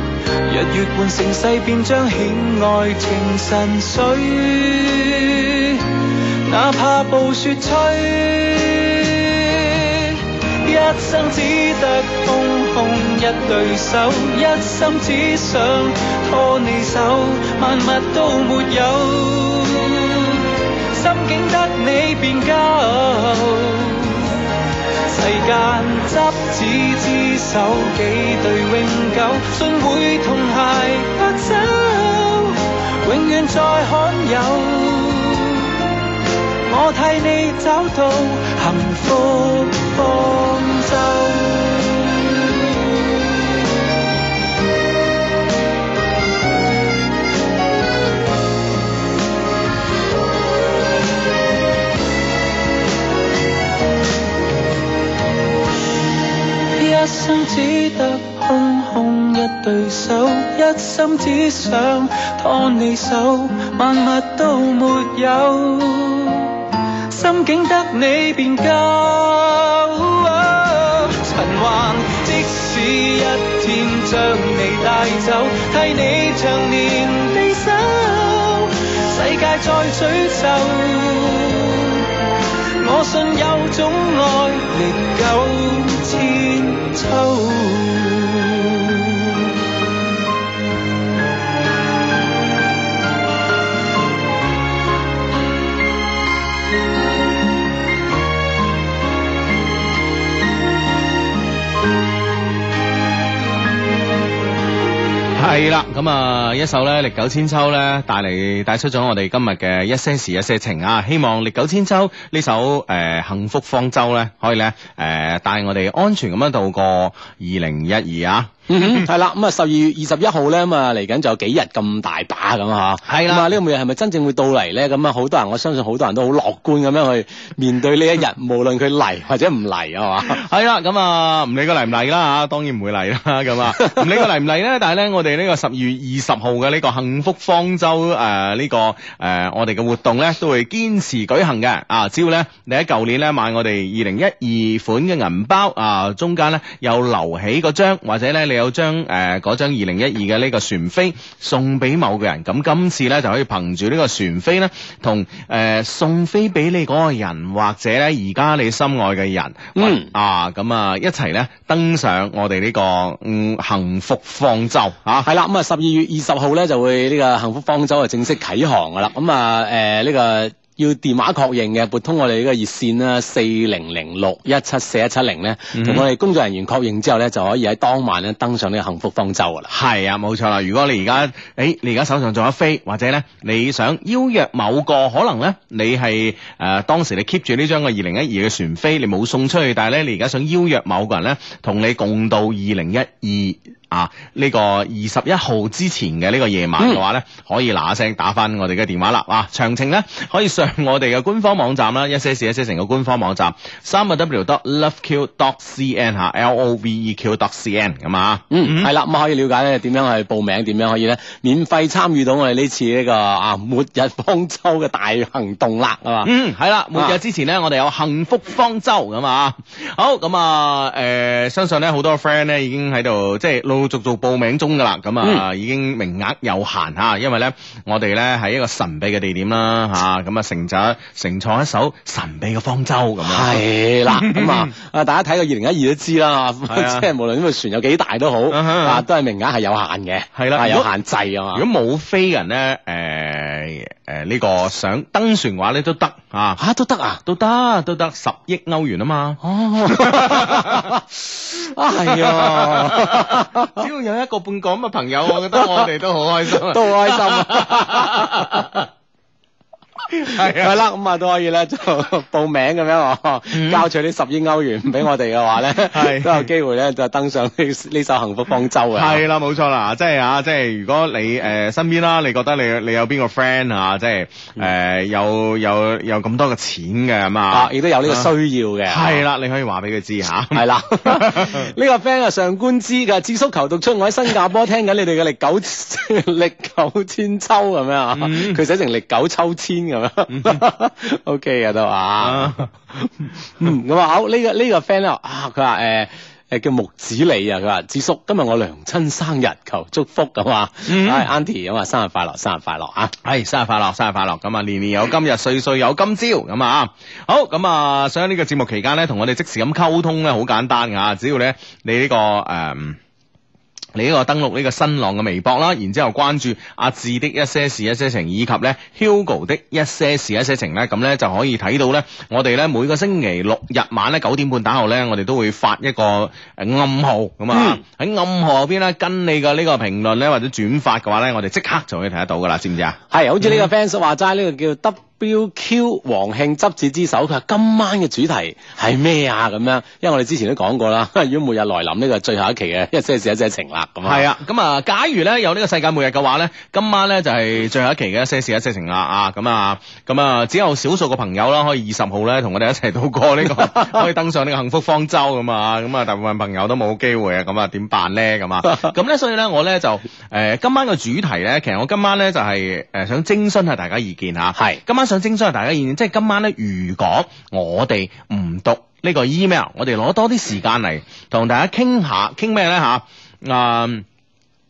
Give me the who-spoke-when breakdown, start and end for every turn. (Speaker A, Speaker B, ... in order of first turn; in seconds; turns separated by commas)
Speaker A: 0.4-24.5, Speaker A: 25.1-36.1, Speaker A: 36.7-42.7, Speaker A: 56.7-89.5, Speaker B: 105.3-119.1, Speaker C: 118.7-130.4, Speaker B: 123.0-123.5, Speaker B: 130.2-165.3, Speaker C: 159.7-160.1, Speaker C: 165.2-179.7, Speaker B: 175.7-176.0, Speaker B: 179.7-208.9, Speaker C: 208.5-216.3, Speaker B: 216.2-234.7, Speaker C: 225.2-225.5, Speaker C: 233.2-241.7, Speaker B: 236.7-237.1, Speaker B: 238.5-239.0, Speaker B: 240.3-240.9, Speaker B: 241.5-246.6, Speaker C: 246.6-247.2, Speaker B: 247.2-251.0, Speaker C: 249.4-253.8, Speaker B: 251.6-258.9, Speaker C: 255.4-255.9, Speaker C: 256.5-258.7, Speaker B: 260.1-260.8, Speaker C: 260.2-269.2, Speaker B: 263.5-263.9, Speaker B: 265.8-266.5, Speaker B: 268.9-278.3, Speaker C: 277.5-279.2, Speaker B: 278.9-281.7, Speaker C: 280.5-303.1, Speaker B: 288.1-288.6, Speaker B: 290.3-290.6, Speaker B: 292.2-292.7, Speaker B: 300.9-301.3, Speaker B: 303.2-313.0, Speaker B: 313.9-333.7, Speaker C: 327.5-327.8, Speaker C: 333.1-344.2, Speaker B: 344.0-374.0